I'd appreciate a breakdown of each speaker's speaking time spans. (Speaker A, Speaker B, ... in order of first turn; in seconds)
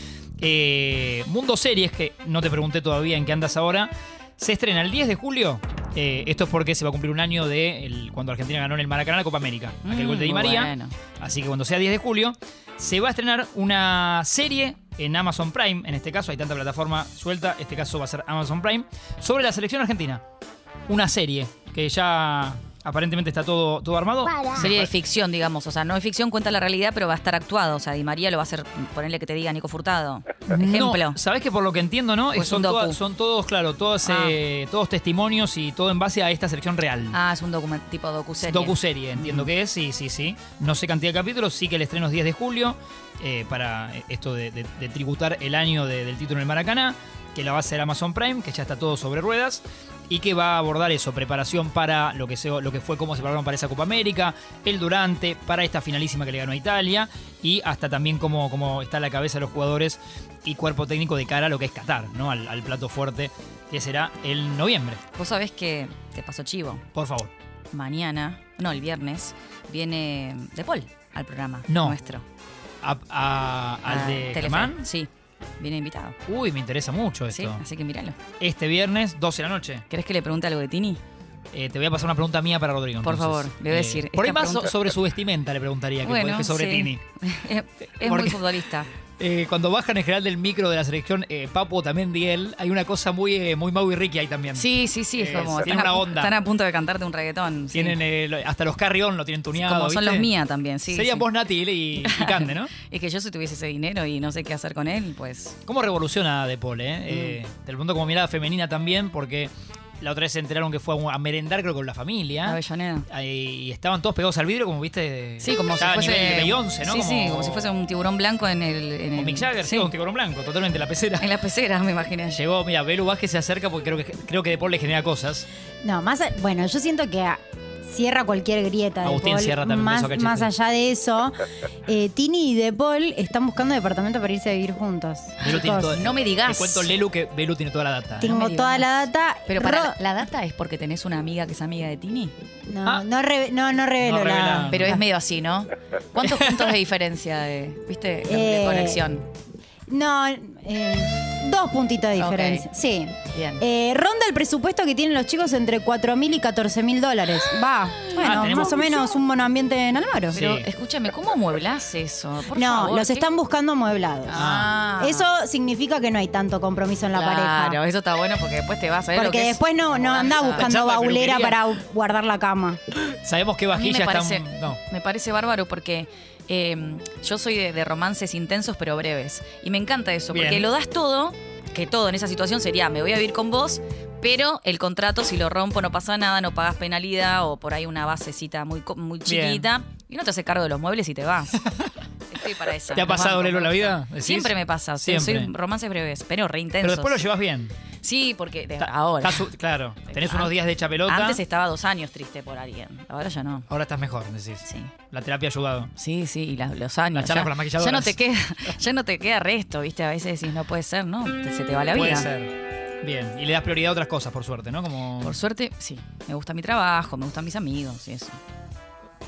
Speaker A: 0.4-20.2, 20.9-24.9, 30.5-37.2, 38.4-65.0, 66.9-67.3, 71.7-72.0, 72.8-74.8, 76.2-77.6, 78.4-79.8, 81.5-87.0, 88.0-88.4, 89.2-96.3, 97.7-100.3, 100.9-102.7, 105.7-112.6, 113.1-117.7, 119.1-121.3, 122.3-125.5, 129.0-130.5, 135.4-138.3, 144.0-145.0, 146.2-146.6, 158.2-159.1, 160.3-160.7, 164.3-164.7, 170.5-171.7, 173.1-174.8, 180.3-180.7, 189.2-189.7, 191.6-191.9, 192.9-195.5, 196.8-197.7, 199.2-201.4, 203.7-205.9, 207.1-208.1, 211.9-215.3
Speaker B: 9.8-10.9, 24.5-31.2, 32.3-33.0, 34.0-34.4, 37.1-39.5, 65.1-66.8, 67.7-72.2, 73.8-75.1, 75.6-76.2, 77.3-78.2, 79.9-81.0, 83.0-84.7, 86.0-88.9, 94.5-98.0, 99.6-101.3, 102.0-105.6, 107.1-107.4, 112.4-113.1, 115.4-119.9, 121.2-122.4, 135.5-136.9, 138.2-138.9, 139.4-142.3, 144.7-149.2, 152.2-152.7, 153.3-153.6, 158.0-158.9, 160.3-163.3, 164.3-165.3, 167.1-170.7, 173.7-191.6, 192.3-197.2, 198.0-199.5, 200.1-200.5, 201.0-203.7, 204.6-204.9, 206.0-212.3, 215.2-218.4
Speaker C: 125.8-136.1, 138.2-139.9, 142.7-145.0, 148.2-149.0, 149.9-160.4, 162.5-167.8, 169.1-172.8